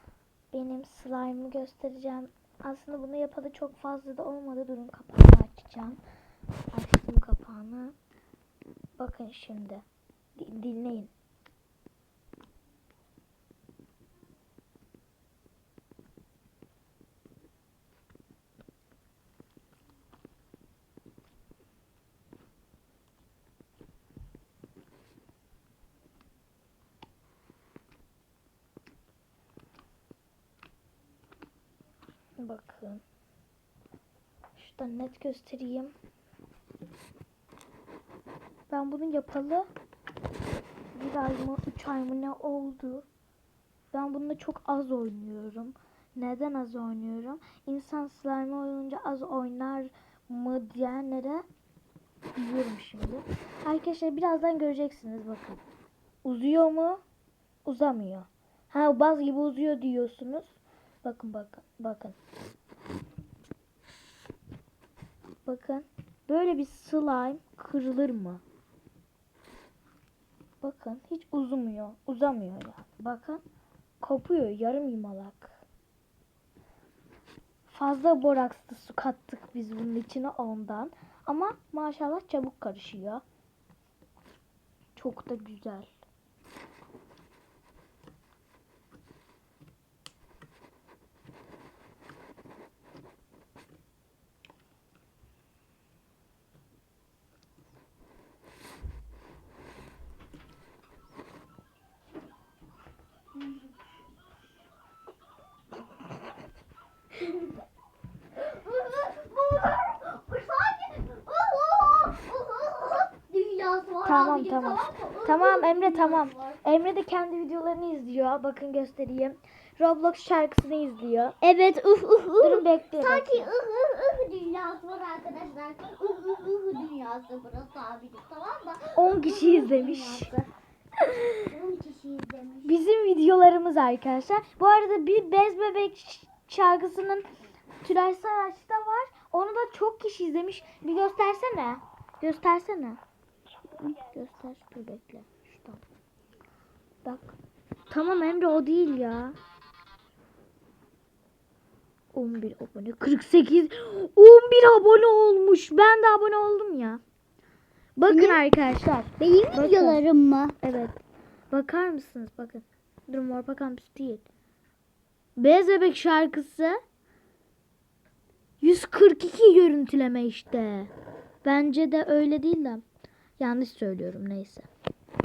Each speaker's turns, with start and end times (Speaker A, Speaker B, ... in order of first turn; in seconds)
Speaker A: 0.5-6.0, 6.7-8.0, 9.0-9.8, 10.4-11.1, 32.4-33.0, 34.6-35.9, 38.7-39.7, 40.9-43.1, 43.9-51.4, 52.4-55.6, 56.2-57.0, 57.6-62.2, 65.5-68.4, 70.6-73.4, 74.0-75.6, 77.7-83.2, 85.0-85.9, 114.0-121.4, 122.4-123.5, 129.0-130.3, 131.0-131.4, 132.7-137.3, 137.8-143.0, 143.8-145.8, 147.0-147.4, 147.9-149.3, 152.1-157.0, 158.0-160.0, 160.6-161.0, 161.5-164.3, 165.4-166.8, 168.6-170.9, 171.4-172.8, 173.4-174.7
Speaker B: 107.2-107.5, 108.3-116.6, 121.4-130.5, 131.5-132.7, 158.1-158.4, 159.2-160.6